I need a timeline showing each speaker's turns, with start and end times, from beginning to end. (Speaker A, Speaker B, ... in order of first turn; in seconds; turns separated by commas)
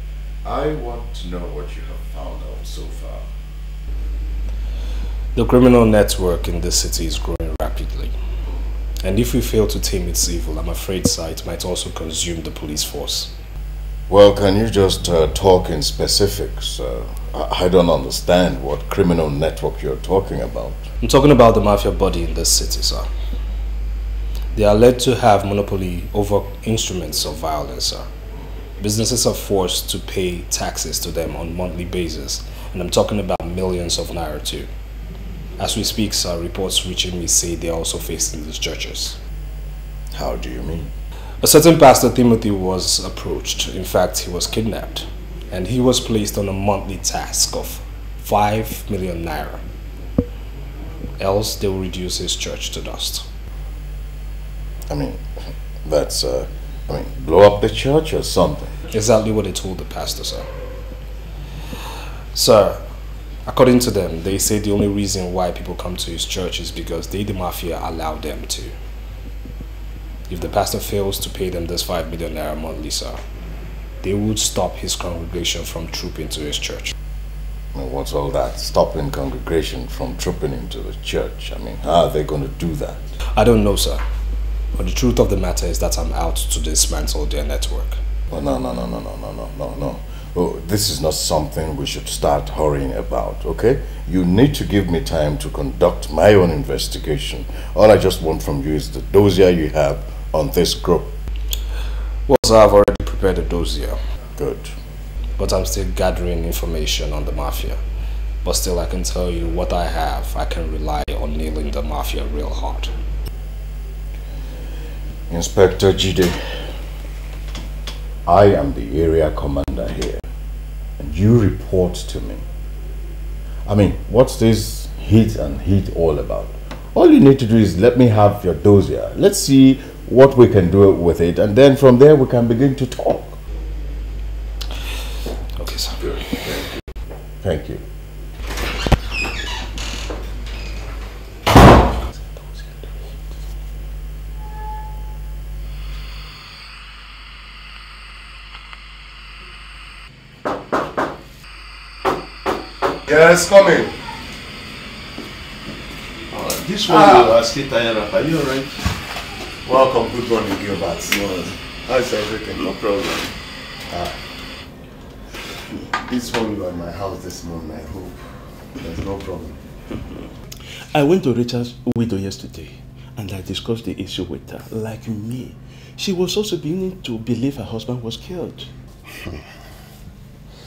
Speaker A: 0.4-3.3, Speaker B: 5.3-8.2, Speaker B: 9.0-13.3, Speaker A: 14.1-20.9, Speaker B: 21.0-23.1, Speaker B: 24.5-28.1, Speaker B: 28.8-34.7, Speaker B: 35.6-39.2, Speaker A: 40.1-40.9, Speaker B: 41.4-49.6, Speaker B: 51.2-53.2, Speaker A: 54.9-55.2, Speaker A: 55.8-58.9, Speaker B: 58.9-60.5, Speaker B: 62.3-62.8, Speaker B: 63.5-68.7, Speaker B: 70.3-73.2, Speaker B: 74.0-76.9, Speaker A: 77.7-83.1, Speaker B: 83.3-84.0, Speaker B: 84.7-88.0, Speaker A: 88.3-101.1, Speaker B: 102.3-104.0, Speaker A: 104.4-104.7, Speaker B: 105.4-107.8, Speaker B: 108.4-112.9, Speaker A: 115.3-116.5, Speaker A: 118.2-120.2, Speaker A: 121.0-122.4, Speaker A: 123.7-133.4, Speaker B: 135.6-136.6, Speaker A: 137.4-137.8, Speaker C: 156.3-158.7, Speaker C: 162.6-163.3, Speaker D: 166.0-168.2, Speaker D: 168.8-169.5, Speaker C: 170.9-178.7